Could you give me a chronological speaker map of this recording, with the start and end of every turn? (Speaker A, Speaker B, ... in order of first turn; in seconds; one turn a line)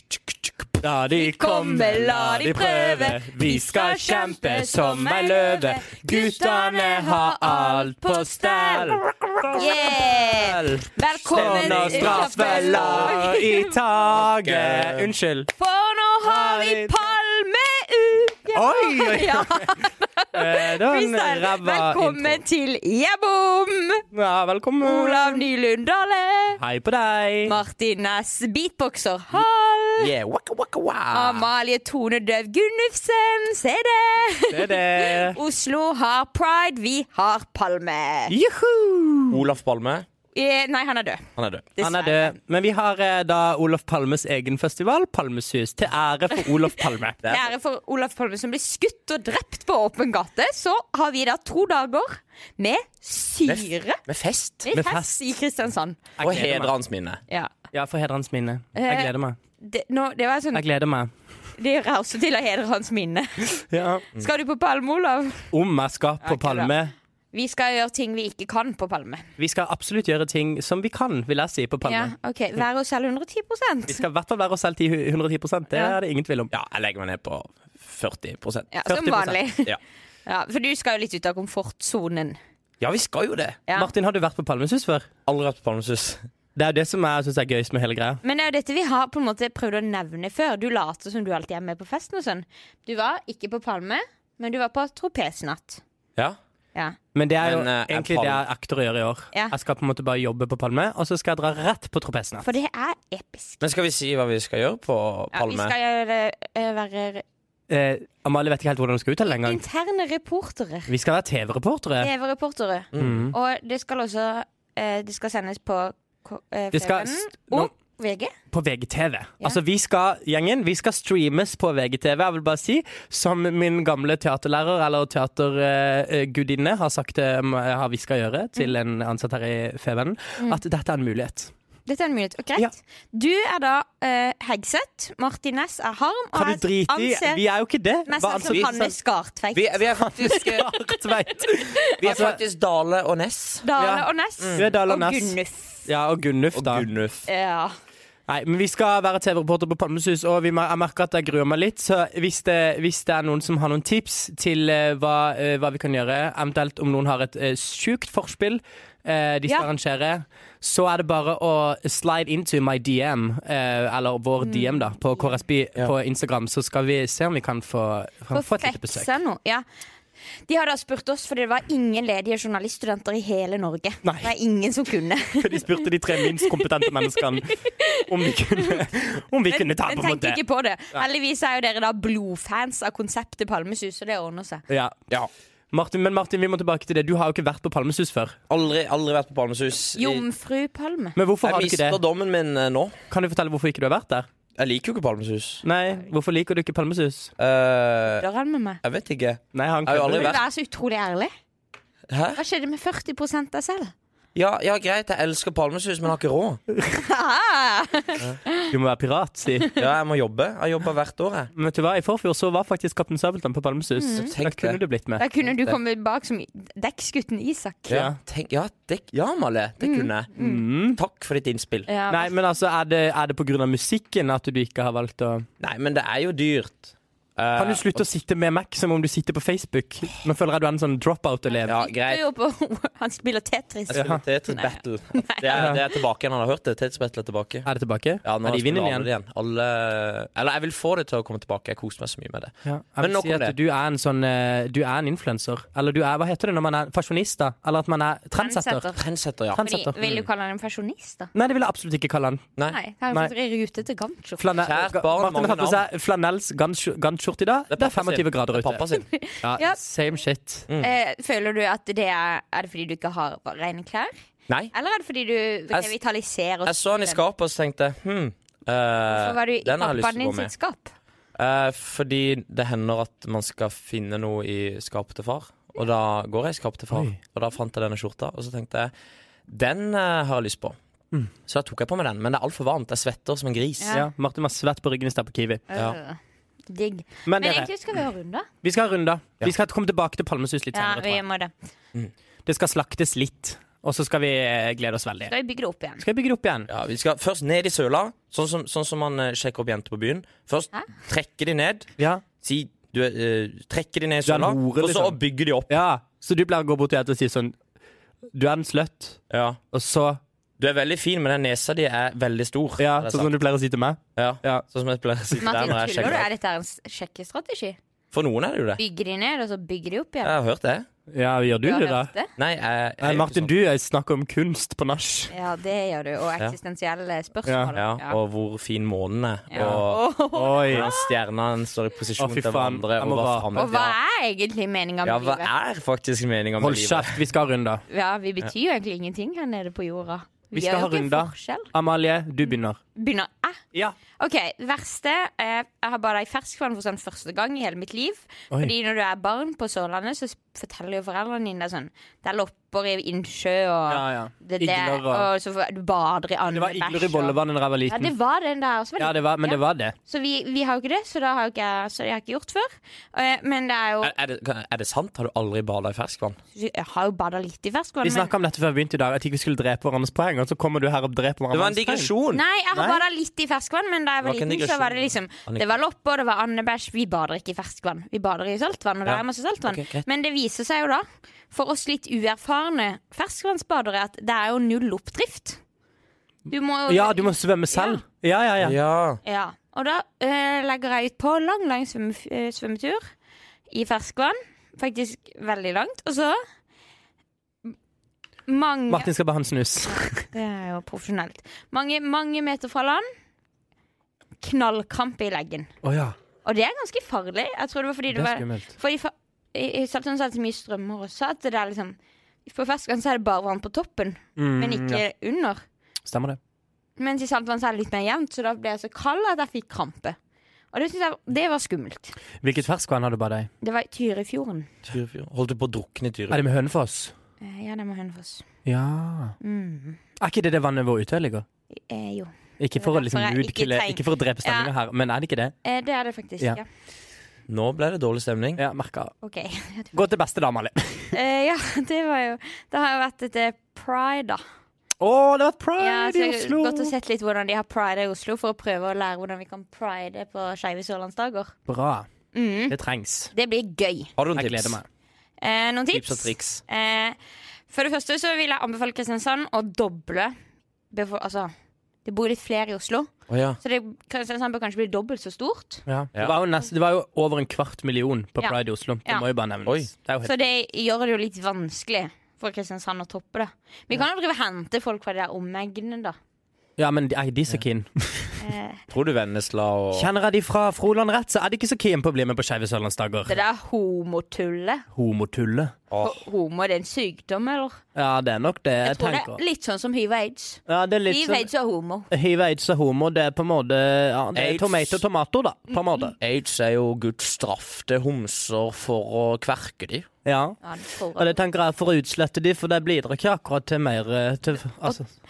Speaker A: 0.8-15.5
Speaker B: 1.1-9.0
Speaker B: 9.5-13.8
Speaker C: 11.2-13.2
Speaker C: 14.1-15.1
Speaker B: 15.6-24.0
Speaker A: 16.2-17.1
Speaker A: 18.5-22.4
Speaker A: 24.1-25.4
Speaker B: 24.8-26.6
Speaker A: 26.6-27.5
Speaker B: 27.4-30.1
Speaker C: 30.0-31.5
Speaker B: 31.1-38.3
Speaker A: 34.5-35.4
Speaker A: 38.3-39.4
Speaker C: 39.3-40.0
Speaker B: 40.3-42.4
Speaker C: 41.4-41.7
Speaker A: 41.8-47.2
Speaker B: 46.5-54.0
Speaker C: 47.2-47.5
Speaker C: 53.4-54.7
Speaker B: 54.6-56.1
Speaker A: 54.7-55.1
Speaker A: 56.2-56.7
Speaker C: 56.2-57.2
Speaker A: 57.7-59.4
Speaker B: 58.7-60.6
Speaker A: 60.5-61.1
Speaker B: 61.6-65.5
Speaker A: 63.7-64.0
Speaker A: 65.5-66.9
Speaker B: 66.2-66.7
Speaker B: 67.3-69.3
Speaker A: 69.4-72.1
Speaker B: 71.8-74.0
Speaker A: 73.9-76.5
Speaker C: 76.5-78.7
Speaker B: 78.7-82.4
Speaker A: 78.8-79.4
Speaker C: 82.8-83.6
Speaker A: 83.7-85.1
Speaker C: 85.2-86.2
Speaker A: 86.5-88.2
Speaker B: 88.2-95.8
Speaker A: 97.1-102.5
Speaker C: 97.4-98.4
Speaker B: 102.4-103.6
Speaker C: 103.6-105.8
Speaker B: 105.3-107.2
Speaker A: 107.7-109.6
Speaker B: 109.3-110.9
Speaker A: 110.9-112.1
Speaker B: 112.0-118.3
Speaker C: 112.9-113.3
Speaker A: 113.0-113.3
Speaker A: 116.7-117.7
Speaker A: 118.5-131.5
Speaker B: 131.9-137.4
Speaker A: 136.3-138.9
Speaker B: 138.1-142.3
Speaker C: 139.5-140.6
Speaker A: 140.0-142.4
Speaker C: 142.0-143.7
Speaker B: 143.6-145.9
Speaker A: 143.8-146.9
Speaker C: 144.4-144.7
Speaker C: 146.5-147.3
Speaker B: 147.3-147.7
Speaker A: 148.3-169.1
Speaker B: 164.4-165.4
Speaker B: 168.3-169.6
Speaker B: 170.5-178.9
Speaker A: 174.0-174.3
Speaker A: 175.4-177.5
Speaker A: 178.1-180.4
Speaker B: 179.5-184.6
Speaker A: 184.7-184.9
Speaker A: 185.7-188.3
Speaker C: 188.5-190.2
Speaker B: 190.0-191.2
Speaker A: 191.2-192.0
Speaker C: 191.4-193.0
Speaker A: 193.1-194.3
Speaker C: 194.5-195.6
Speaker A: 195.6-197.3
Speaker C: 197.4-198.2
Speaker B: 198.2-198.8
Speaker C: 198.8-200.4
Speaker A: 199.5-200.3
Speaker B: 200.1-201.3
Speaker C: 202.1-202.4
Speaker B: 202.3-203.9
Speaker C: 204.3-206.6
Speaker B: 206.9-208.7
Speaker A: 208.7-209.7
Speaker C: 209.8-211.5
Speaker A: 211.5-215.2
Speaker B: 214.0-214.3
Speaker C: 214.1-214.8
Speaker B: 215.2-218.0
Speaker C: 217.9-220.3
Speaker A: 217.9-218.2
Speaker B: 219.8-220.6
Speaker A: 220.4-221.0
Speaker C: 220.9-221.9
Speaker B: 221.9-222.3
Speaker A: 222.1-225.4
Speaker C: 225.6-228.1
Speaker A: 227.6-231.7
Speaker B: 231.5-235.8
Speaker C: 231.7-232.2
Speaker C: 233.9-237.7
Speaker A: 233.9-234.2
Speaker A: 237.6-239.1
Speaker C: 238.2-243.6
Speaker A: 242.6-248.9
Speaker B: 248.3-249.0
Speaker C: 249.0-250.2
Speaker A: 249.5-249.9
Speaker B: 249.6-251.3
Speaker A: 251.3-252.4
Speaker B: 252.7-254.5
Speaker A: 254.4-258.8
Speaker C: 254.6-255.8
Speaker C: 257.7-259.1
Speaker B: 258.9-259.8
Speaker A: 259.4-260.7
Speaker B: 260.8-264.1
Speaker B: 264.7-267.2
Speaker C: 266.6-270.5
Speaker B: 269.1-270.9
Speaker C: 271.3-278.9
Speaker A: 276.9-277.2
Speaker C: 279.5-280.8
Speaker C: 281.5-284.0
Speaker B: 283.8-284.1
Speaker A: 283.9-285.6
Speaker B: 285.7-286.2
Speaker B: 286.7-288.5
Speaker A: 287.2-287.7
Speaker A: 288.6-291.2
Speaker B: 290.7-291.5
Speaker A: 292.4-295.3
Speaker B: 295.3-296.0
Speaker A: 296.0-296.7
Speaker C: 296.7-301.9
Speaker A: 302.0-302.2
Speaker C: 302.4-305.8
Speaker A: 304.2-307.6
Speaker A: 308.3-309.2
Speaker C: 309.3-309.6
Speaker A: 309.7-310.2
Speaker C: 310.6-313.3
Speaker A: 312.8-314.6
Speaker C: 314.1-316.3
Speaker A: 315.4-315.7
Speaker B: 315.4-317.8
Speaker C: 318.1-318.8
Speaker B: 318.8-320.3
Speaker C: 320.2-320.9
Speaker A: 321.1-322.1
Speaker B: 321.6-322.3
Speaker C: 322.4-323.5
Speaker A: 323.0-325.3
Speaker B: 325.3-328.2
Speaker A: 327.5-327.7
Speaker C: 327.7-330.1
Speaker B: 329.5-331.1
Speaker A: 329.5-330.9
Speaker C: 330.7-333.9
Speaker A: 332.2-333.5
Speaker B: 333.5-335.5
Speaker C: 335.0-337.2
Speaker A: 336.6-337.8
Speaker B: 337.9-341.7
Speaker A: 340.5-342.8
Speaker B: 342.9-343.6
Speaker B: 344.2-357.4
Speaker A: 353.9-355.3
Speaker A: 356.5-358.1
Speaker B: 357.9-364.1
Speaker A: 359.0-359.9
Speaker C: 364.0-366.4
Speaker B: 366.5-368.3
Speaker A: 368.0-372.1
Speaker C: 371.5-372.4
Speaker B: 372.3-385.6
Speaker A: 372.7-373.0
Speaker C: 374.2-375.7
Speaker C: 379.1-380.0
Speaker B: 386.5-388.0
Speaker A: 386.9-388.8
Speaker C: 388.6-389.2
Speaker B: 389.2-393.0
Speaker B: 393.7-396.4
Speaker B: 398.5-399.1
Speaker A: 398.9-400.3
Speaker B: 399.9-403.1
Speaker B: 404.4-405.7
Speaker A: 405.8-406.1
Speaker B: 406.4-415.6
Speaker A: 408.1-408.7
Speaker A: 414.4-415.0
Speaker A: 416.1-416.4
Speaker B: 417.0-420.2
Speaker B: 420.7-422.1
Speaker A: 422.4-423.5
Speaker B: 423.6-424.7
Speaker C: 424.8-426.4
Speaker A: 426.3-427.1
Speaker B: 427.4-428.4
Speaker A: 428.6-429.3
Speaker B: 429.4-430.0
Speaker A: 430.2-431.4
Speaker B: 431.9-434.7
Speaker A: 432.6-435.5
Speaker B: 435.6-436.6
Speaker C: 437.5-438.6
Speaker A: 438.6-439.1
Speaker B: 439.2-440.0
Speaker A: 439.9-441.1
Speaker B: 441.1-444.4
Speaker A: 445.0-446.9
Speaker B: 445.8-451.5
Speaker A: 451.7-452.1
Speaker B: 452.3-452.8
Speaker A: 452.7-453.3
Speaker B: 453.3-454.1
Speaker C: 454.2-454.8
Speaker A: 454.4-454.8
Speaker B: 455.4-457.1
Speaker C: 455.9-456.6
Speaker B: 457.7-460.4
Speaker B: 460.9-461.5
Speaker B: 462.0-463.1
Speaker C: 463.3-463.6
Speaker B: 463.6-465.8
Speaker A: 465.9-470.3
Speaker B: 468.4-469.2
Speaker B: 470.2-476.2
Speaker A: 476.8-478.4
Speaker B: 478.4-478.8
Speaker C: 478.9-480.1
Speaker A: 479.9-483.4
Speaker B: 483.3-484.8
Speaker A: 484.9-485.7
Speaker C: 485.9-486.2
Speaker B: 486.0-487.8
Speaker A: 487.9-489.4
Speaker B: 488.8-492.1
Speaker A: 490.7-491.5
Speaker A: 492.1-496.1
Speaker C: 494.3-495.0
Speaker C: 496.2-500.1
Speaker A: 500.2-500.6
Speaker B: 500.6-501.4
Speaker A: 501.2-505.1